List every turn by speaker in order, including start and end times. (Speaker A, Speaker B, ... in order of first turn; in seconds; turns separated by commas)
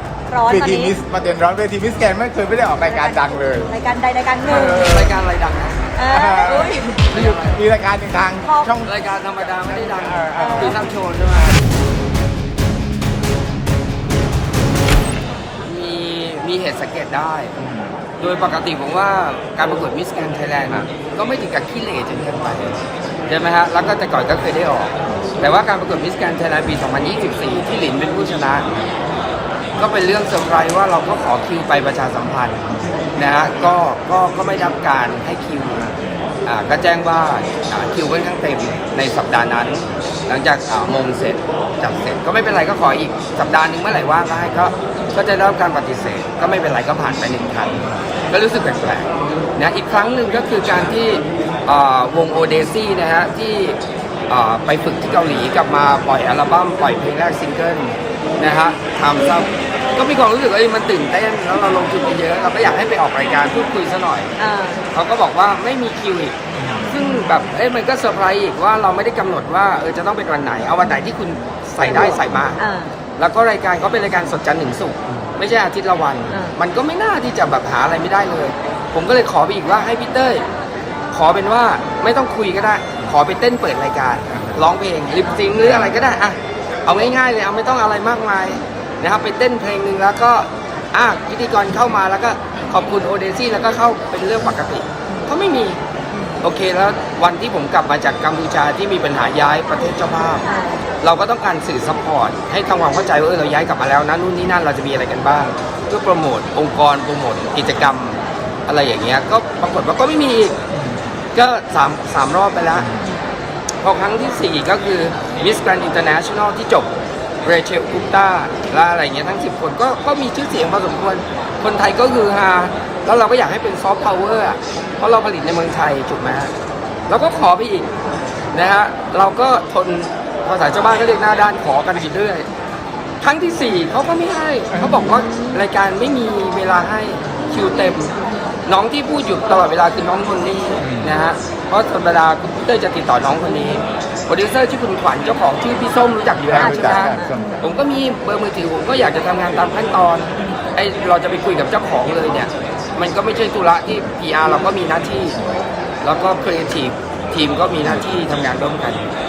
Speaker A: 0.3-1.0, Speaker B: 0.5-3.7, Speaker A: 2.8-5.0, Speaker B: 4.5-5.1, Speaker C: 4.5-5.9, Speaker A: 6.0-7.0, Speaker B: 6.1-8.9, Speaker C: 6.5-7.6, Speaker A: 8.4-8.8, Speaker C: 8.8-11.5, Speaker B: 9.9-10.8, Speaker A: 10.4-10.8, Speaker C: 15.6-17.5, Speaker B: 17.6-17.9, Speaker C: 18.2-28.7, Speaker C: 29.8-35.9, Speaker C: 36.5-64.3, Speaker A: 64.4-64.8, Speaker C: 64.9-66.4, Speaker C: 66.9-72.6, Speaker A: 71.8-72.9, Speaker C: 73.2-80.5, Speaker A: 76.3-76.6, Speaker C: 81.1-95.8, Speaker A: 96.1-96.4, Speaker C: 96.4-100.5, Speaker A: 100.4-100.9, Speaker C: 101.0-110.6, Speaker C: 111.3-112.9, Speaker C: 113.8-116.9, Speaker C: 117.4-126.5, Speaker C: 127.1-127.9, Speaker C: 128.5-132.5, Speaker C: 133.2-138.1, Speaker B: 134.7-135.0, Speaker A: 135.1-135.6, Speaker C: 138.7-155.4, Speaker B: 140.8-141.1, Speaker B: 146.4-147.6, Speaker A: 146.5-147.4, Speaker C: 156.0-159.1